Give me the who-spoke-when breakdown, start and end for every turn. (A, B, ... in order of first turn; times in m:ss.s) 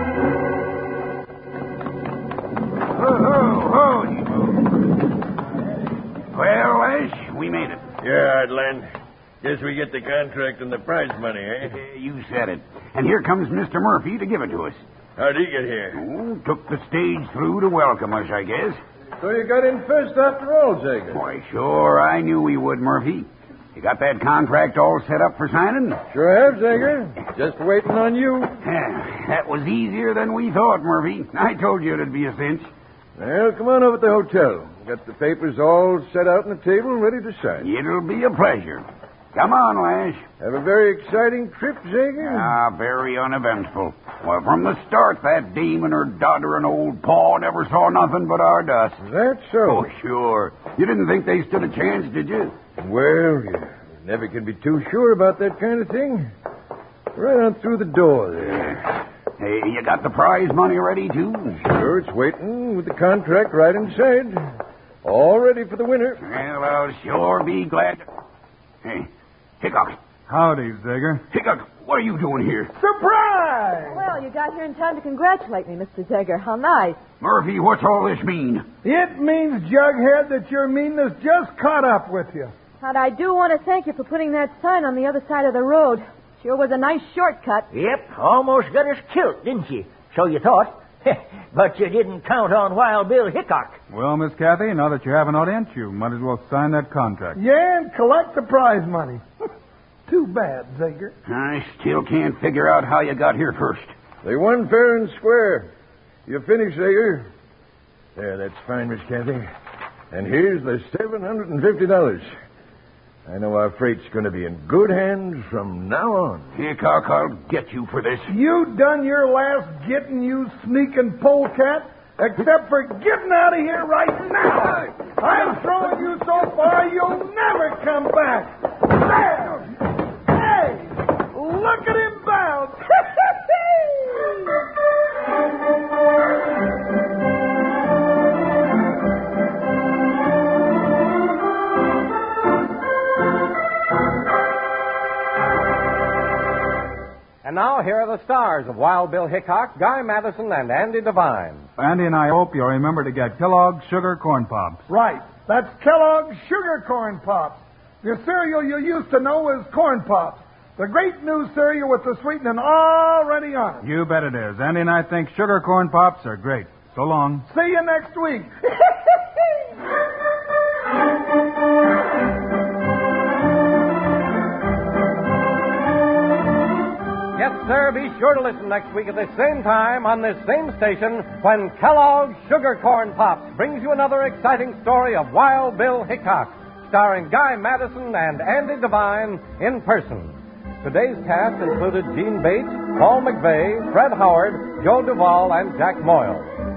0:03.0-0:04.6 A
0:06.3-0:07.9 A
0:08.0-0:08.8 B
0:09.4-0:11.7 B
0:11.6-0:14.8 A
0:15.2-0:16.0 B
0:15.9-0:18.8 A
0:19.2-0:21.2 C
0:21.1-0:26.0 A
0:26.1-0:28.5 C
0:28.6-0:32.7 A
0:33.2-0:37.7 C
0:37.6-0:40.2 A
0:40.4-0:42.5 C
0:42.2-0:49.0 A
0:49.0-0:49.9 C
0:49.6-0:52.6 A
0:52.8-0:56.3 C
0:57.1-0:58.8 C
0:59.4-1:01.6 A
1:01.6-1:04.4 C
1:05.0-1:06.2 C
1:06.2-1:08.0 A
1:08.8-1:09.1 A
1:09.6-1:10.0 A
1:10.3-1:11.2 D
1:11.3-1:12.7 A
1:12.7-1:14.0 E
1:13.8-1:17.0 F
1:17.2-1:18.6 A
1:18.8-1:22.5 E
1:22.8-1:27.7 F
1:27.7-1:33.8 G
1:33.9-1:37.4 D
1:37.3-1:39.2 E
1:40.1-1:41.1 E
1:41.2-1:43.9 A
1:44.2-1:45.7 C
1:46.3-1:47.3 C
1:48.2-1:49.4 C
1:50.1-1:52.3 C
1:53.3-1:56.4 C
1:56.5-1:58.3 A
1:58.3-2:09.6 E
2:10.3-2:14.5 E
2:27.4-2:31.7 H
2:31.8-2:34.8 D
2:34.9-2:43.8 E
2:43.8-2:47.4 D
2:47.5-2:48.5 E
2:57.3-3:16.5 H